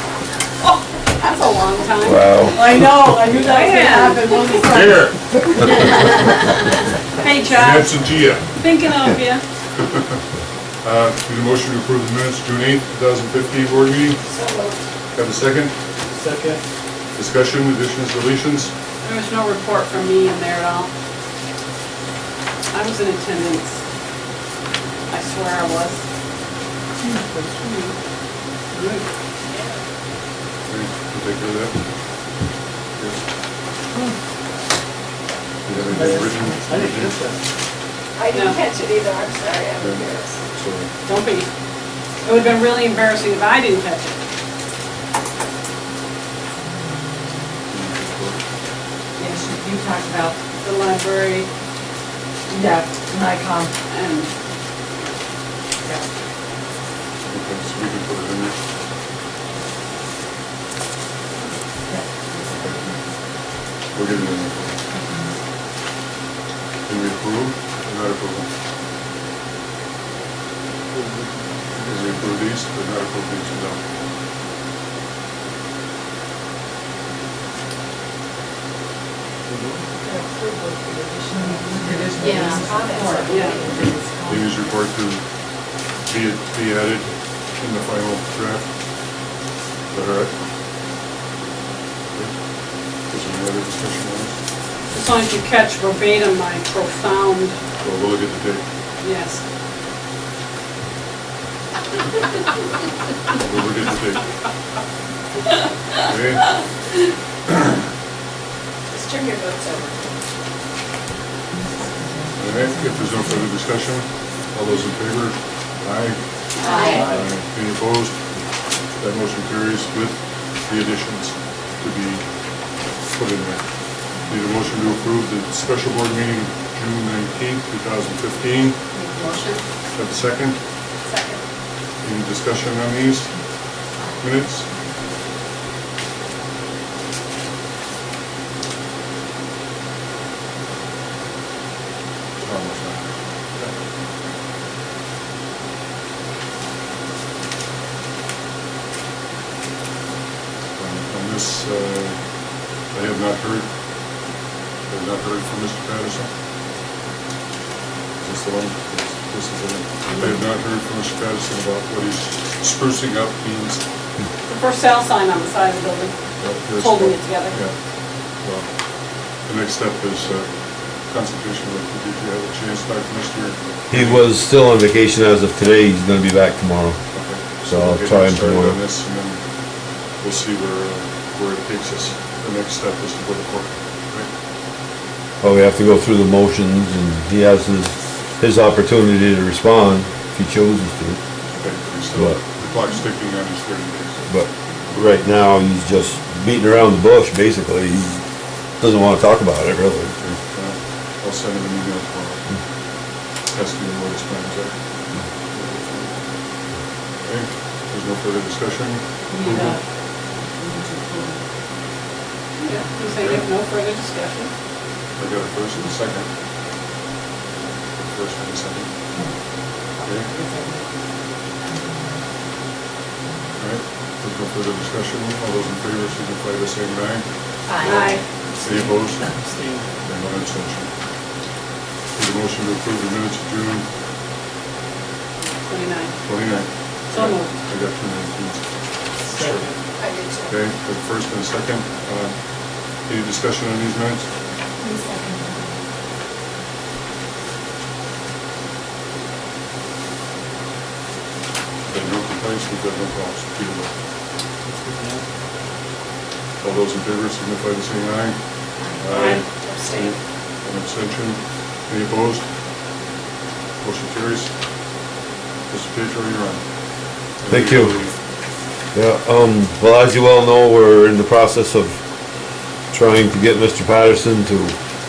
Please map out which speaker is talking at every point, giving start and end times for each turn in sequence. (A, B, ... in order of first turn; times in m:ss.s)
0:01.2-0:02.7 A
0:02.0-0:02.6 B
0:02.5-0:05.5 C
0:03.3-0:04.8 A
0:07.2-0:09.4 A
0:07.5-0:08.5 D
0:09.8-0:10.2 D
0:10.8-0:14.2 D
0:14.2-0:14.8 E
0:15.1-0:15.7 D
0:16.1-0:16.6 F
0:17.2-0:18.7 D
0:19.0-0:20.9 A
0:22.7-0:23.8 A
0:25.1-0:26.0 A
0:28.7-0:29.0 A
0:30.7-0:31.8 D
0:35.6-0:37.2 D
0:35.9-0:37.4 F
0:38.2-0:40.4 E
0:38.3-0:38.6 A
0:39.8-0:40.9 D
0:41.1-0:41.5 A
0:42.2-0:44.2 A
0:47.7-0:48.4 D
0:49.2-0:50.4 C
0:50.6-0:51.5 A
0:52.5-0:53.7 C
0:53.9-0:54.3 A
0:57.3-0:58.6 D
1:01.9-1:02.8 C
1:02.5-1:02.9 D
1:03.9-1:04.8 D
1:04.9-1:05.3 C
1:06.9-1:08.5 D
1:10.9-1:12.0 F
1:11.8-1:13.8 D
1:19.5-1:19.8 F
1:20.0-1:24.5 C
1:23.2-1:23.6 A
1:23.6-1:25.2 D
1:26.0-1:28.7 D
1:29.9-1:30.4 D
1:33.1-1:34.3 D
1:34.9-1:37.6 A
1:37.8-1:38.6 D
1:39.0-1:39.4 A
1:43.4-1:44.2 D
1:46.0-1:46.5 D
1:48.9-1:50.1 E
1:52.0-1:53.4 C
1:52.4-1:56.2 D
1:56.6-1:57.0 E
1:56.7-1:57.0 C
1:57.0-1:58.2 D
1:59.0-2:02.2 D
2:03.1-2:03.6 D
2:04.2-2:08.8 D
2:09.9-2:10.6 D
2:11.1-2:11.4 E
2:12.0-2:13.3 D
2:14.2-2:14.7 D
2:22.4-2:23.7 D
2:30.8-2:32.2 D
2:32.9-2:33.7 D
2:34.9-2:36.3 D
2:38.2-2:43.8 D
2:44.4-2:46.2 A
2:46.4-2:47.7 D
2:46.7-2:47.6 A
2:48.4-2:48.7 D
2:49.4-2:50.5 D
2:51.1-2:54.3 D
2:53.9-2:57.0 B
2:57.1-2:59.4 D
2:57.6-2:58.8 B
3:00.2-3:04.3 D
3:05.4-3:11.2 B
3:11.6-3:14.2 D
3:12.1-3:12.4 B
3:14.3-3:18.2 B
3:18.8-3:20.2 B
3:20.2-3:22.5 D
3:23.5-3:24.8 D
3:25.5-3:26.1 D
3:27.2-3:29.8 D
3:29.3-3:29.8 C
3:30.6-3:31.4 C
3:32.6-3:34.5 A
3:35.2-3:36.3 D
3:38.1-3:38.9 D
3:40.0-3:40.3 D
3:40.3-3:40.6 C
3:43.6-3:49.3 D
3:47.7-3:48.1 C
3:47.8-3:48.2 A
3:48.7-3:49.9 F
3:50.0-3:50.9 D
3:52.2-3:53.9 D
3:55.6-3:56.2 A
3:56.2-3:58.6 D
3:57.1-3:57.5 A
3:59.3-3:59.7 D
3:59.3-3:59.8 F
4:00.0-4:00.7 E
4:00.4-4:02.4 D
4:03.0-4:04.3 D
4:11.9-4:13.9 D
4:14.8-4:15.2 F
4:16.6-4:18.4 D
4:19.0-4:22.4 D
4:19.1-4:20.1 E
4:23.8-4:24.5 D
4:25.7-4:26.6 D
4:27.4-4:28.2 D
4:27.5-4:28.0 B
4:28.9-4:32.0 B
4:32.9-4:34.8 B